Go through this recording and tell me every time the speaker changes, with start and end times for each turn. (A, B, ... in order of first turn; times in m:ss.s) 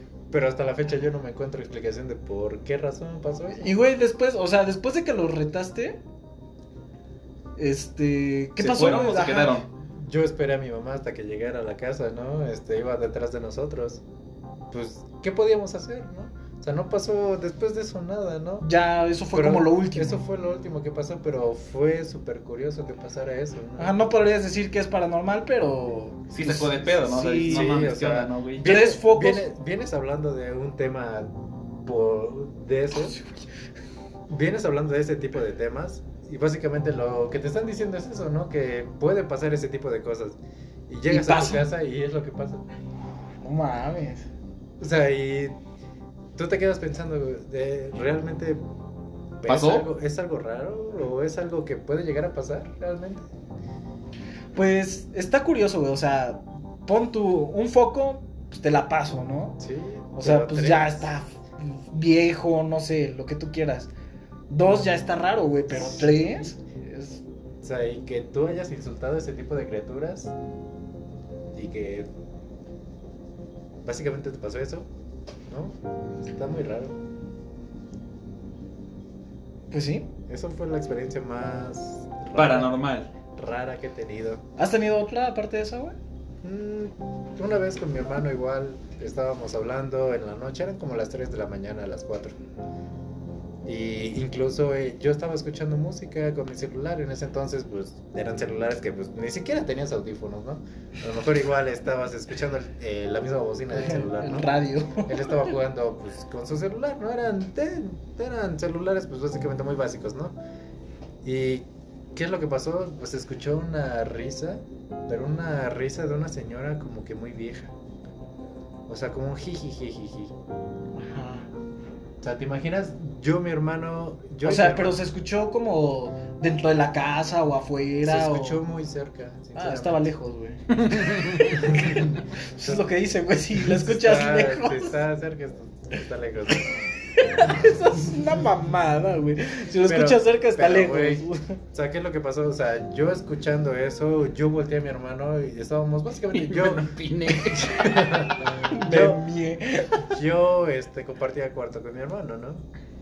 0:00.3-0:03.7 A
0:03.6-0:06.0 B
0:07.6-0:09.6 B
0:08.6-0:09.7 C
0:09.9-0:14.0 A
0:14.7-0:18.7 A
0:18.6-0:20.2 B
0:19.3-0:24.0 A
0:23.8-0:27.8 B
0:26.3-0:28.7 C
0:27.4-0:33.2 A
0:28.6-0:29.5 B
0:34.3-0:42.6 A
0:41.1-0:41.7 B
0:43.4-0:44.2 B
0:44.8-0:45.6 A
0:46.3-0:48.6 A
0:49.4-0:53.2 A
0:49.4-0:49.9 C
0:54.5-0:59.6 B
0:59.6-1:01.1 A
1:00.1-1:03.9 B
1:04.5-1:07.2 B
1:05.7-1:06.5 A
1:07.6-1:10.3 A
1:11.5-1:12.1 A
1:13.8-1:14.9 A
1:15.5-1:17.0 A
1:19.7-1:20.1 B
1:20.3-1:22.7 A
1:22.3-1:23.1 C
1:23.3-1:24.4 A
1:24.6-1:26.0 B
1:26.4-1:32.3 A
1:33.6-1:50.4 A
1:43.7-1:45.5 B
1:51.2-1:57.7 A
1:58.9-2:00.3 A
2:00.9-2:01.5 B
2:02.2-2:05.0 A
2:04.4-2:08.6 B
2:08.0-2:10.1 A
2:09.5-2:15.0 B
2:10.9-2:11.5 C
2:11.5-2:12.2 A
2:13.6-2:16.8 A
2:17.1-2:21.6 B
2:19.8-2:26.9 A
2:26.3-2:28.3 C
2:27.5-2:29.2 A
2:28.7-2:30.1 B
2:30.0-2:32.6 A